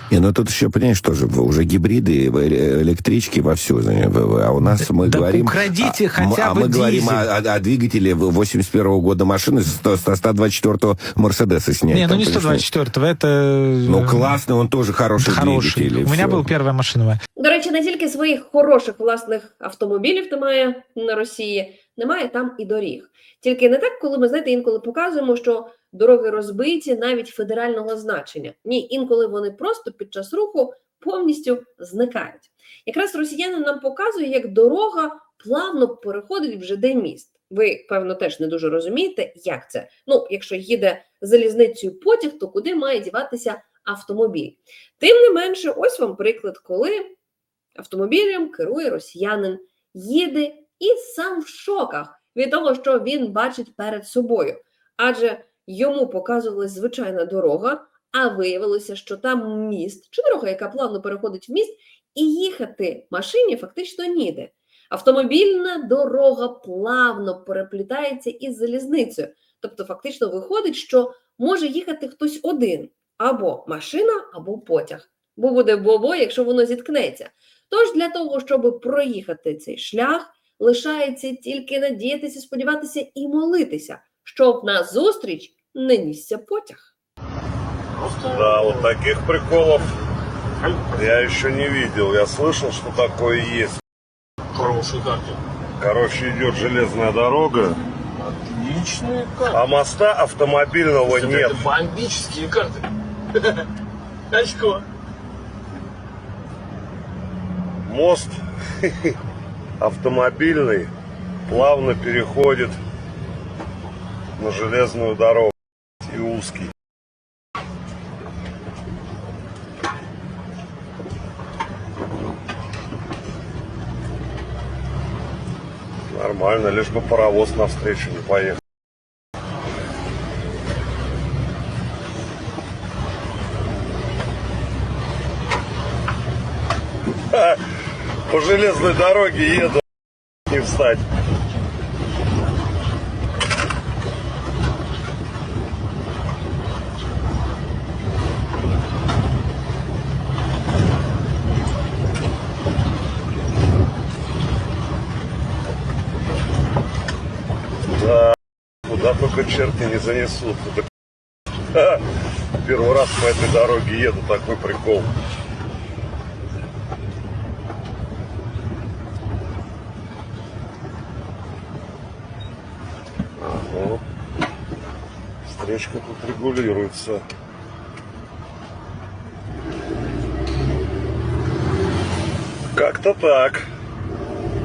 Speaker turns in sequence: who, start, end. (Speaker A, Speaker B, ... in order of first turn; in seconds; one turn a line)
Speaker A: 0.1-12.6
Speaker B: 4.6-7.3
Speaker B: 11.9-14.4
Speaker A: 13.9-16.4
Speaker B: 15.2-17.2
Speaker C: 17.4-47.1
Speaker C: 47.8-86.9
Speaker D: 88.2-89.9
Speaker D: 91.0-93.7
Speaker E: 94.5-95.4
Speaker D: 95.8-97.8
Speaker E: 98.4-99.5
Speaker D: 99.4-101.8
Speaker E: 101.2-102.8
Speaker E: 104.3-104.8
Speaker D: 107.9-109.1
Speaker D: 109.8-110.9
Speaker D: 111.5-112.8
Speaker D: 114.4-115.5
Speaker D: 116.0-116.7
Speaker D: 126.1-128.6
Speaker D: 137.3-137.6
Speaker D: 138.3-139.8
Speaker D: 140.5-141.0
Speaker D: 158.0-158.3
Speaker D: 158.9-160.8
Speaker D: 161.7-162.0
Speaker D: 162.6-165.1
Speaker D: 173.4-174.0
Speaker D: 175.5-177.2
Speaker D: 182.7-183.7